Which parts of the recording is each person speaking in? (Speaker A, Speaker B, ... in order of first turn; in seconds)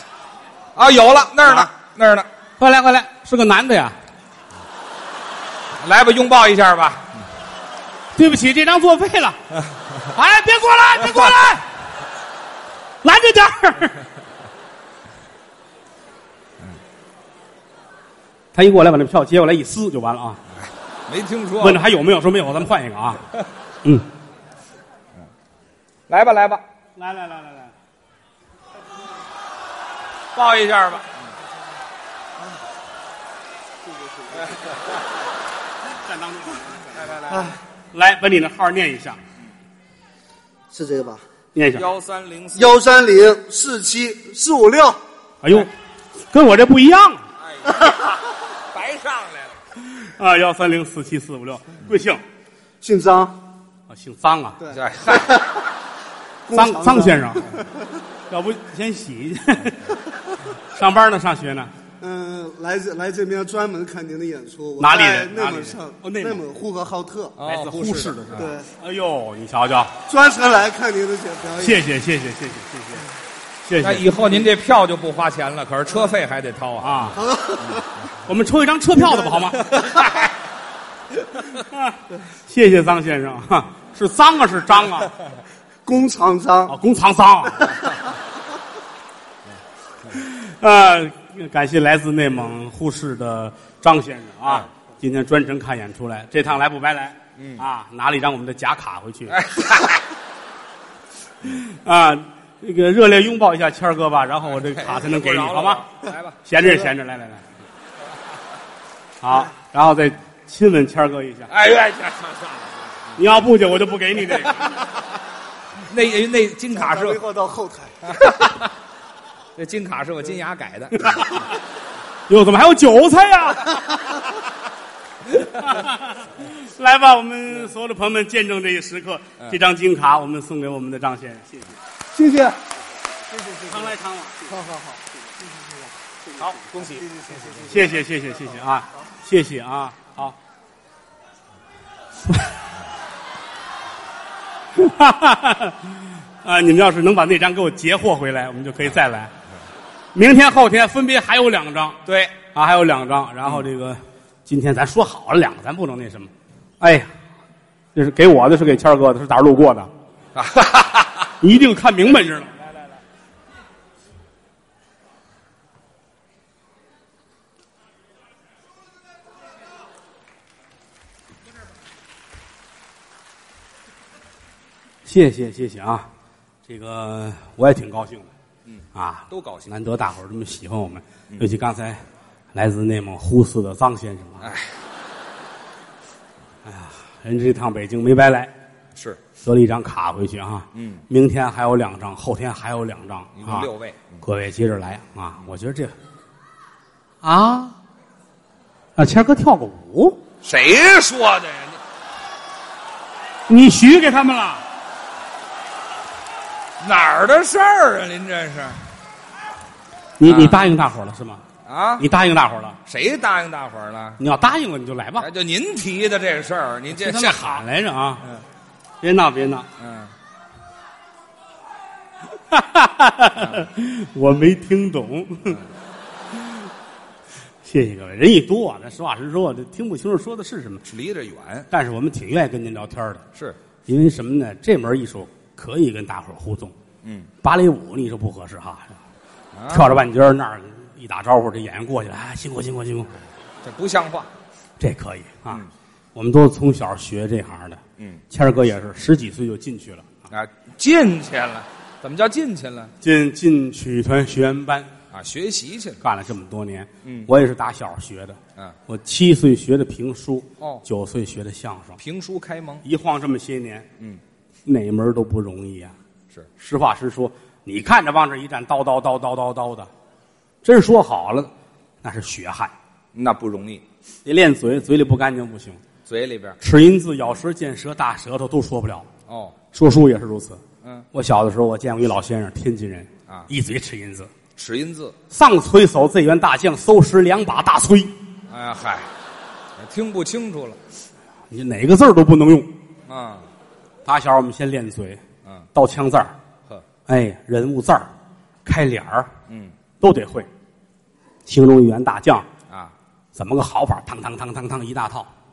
Speaker A: 0.8-2.3, 5.8-7.2, 20.6-21.8, 26.1-26.6, 30.3-31.2, 36.9-37.6, 41.7-42.8, 47.4-47.9, 48.7-49.6, 54.7-55.4, 67.4-68.5, 73.8-77.2, 79.8-80.3, 97.3-97.6, 99.3-100.0, 104.7-106.4, 111.5-113.1, 115.9-117.2, 118.2-118.6, 119.5-121.3, 136.4-137.8, 152.1-152.4, 160.3-161.3, 178.7-179.7, 184.4-184.7, 188.9-189.2, 190.7-191.1, 193.3-194.2, 200.4-201.8, 206.8-208.8, 210.2-210.6, 211.6-212.0, 212.8-214.2, 215.2-217.6, 219.8-220.1, 223.3-223.7, 230.8-231.7, 237.0-237.3, 239.5-239.9, 243.6-244.3, 248.0-248.2, 250.3-252.9, 255.1-256.0, 257.0-257.3, 262.0-262.8, 273.1-273.8, 276.1-276.6, 279.3-279.6, 284.6-285.1, 288.5-289.1, 289.8-290.8, 293.1-293.5, 299.5-299.7, 302.7-302.9
Speaker B: 2.6-4.0, 8.1-9.4, 10.1-11.7, 13.0-14.0, 18.5-20.4, 21.6-23.2, 26.9-27.7, 35.9-39.2, 41.5-41.9, 45.4-47.2, 49.8-52.2, 53.9-54.6, 56.5-57.5, 58.3-60.0, 60.6-61.7, 64.8-66.4, 67.4-69.9, 71.6-73.0, 73.6-74.4, 76.8-77.2, 78.2-79.7, 81.5-85.1, 86.7-87.8, 90.1-99.4, 101.4-105.8, 106.4-107.5, 109.2-111.5, 113.2-114.8, 121.0-121.4, 122.3-123.8, 125.4-131.8, 133.4-134.7, 137.6-140.3, 142.2-142.5, 144.7-149.3, 150.1-152.0, 152.5-157.1, 157.9-159.9, 161.4-162.6, 175.0-176.1, 176.7-178.3, 178.9-184.5, 186.6-188.5, 189.4-193.7, 194.2-195.9, 197.2-197.8, 198.9-200.2, 203.5-204.6, 210.2-211.4, 212.0-212.8, 214.2-215.3, 216.9-218.2, 219.0-219.7, 222.3-225.6, 226.3-226.7, 227.6-230.8, 231.7-233.2, 233.9-236.7, 237.4-239.0, 239.7-243.1, 244.8-245.6, 246.1-250.1, 253.0-254.9, 256.0-262.0, 262.8-263.9, 264.6-265.9, 266.6-269.9, 270.6-271.5, 272.0-272.7, 274.2-275.8, 276.6-279.1, 279.7-280.6, 281.1-284.3, 285.3-288.1, 291.5-292.7, 294.0-295.2, 295.7-296.3, 297.1-298.1, 298.6-299.3, 300.0-300.5, 301.4-302.5, 303.3-305.3
Speaker C: 33.9-34.5, 40.7-41.2, 42.5-45.0, 52.8-53.4, 54.6-55.5, 56.5-57.7, 62.0-67.4, 68.3-68.7, 70.1-71.9, 77.2-77.8, 85.8-86.7, 116.7-118.0, 132.1-132.6, 134.5-134.9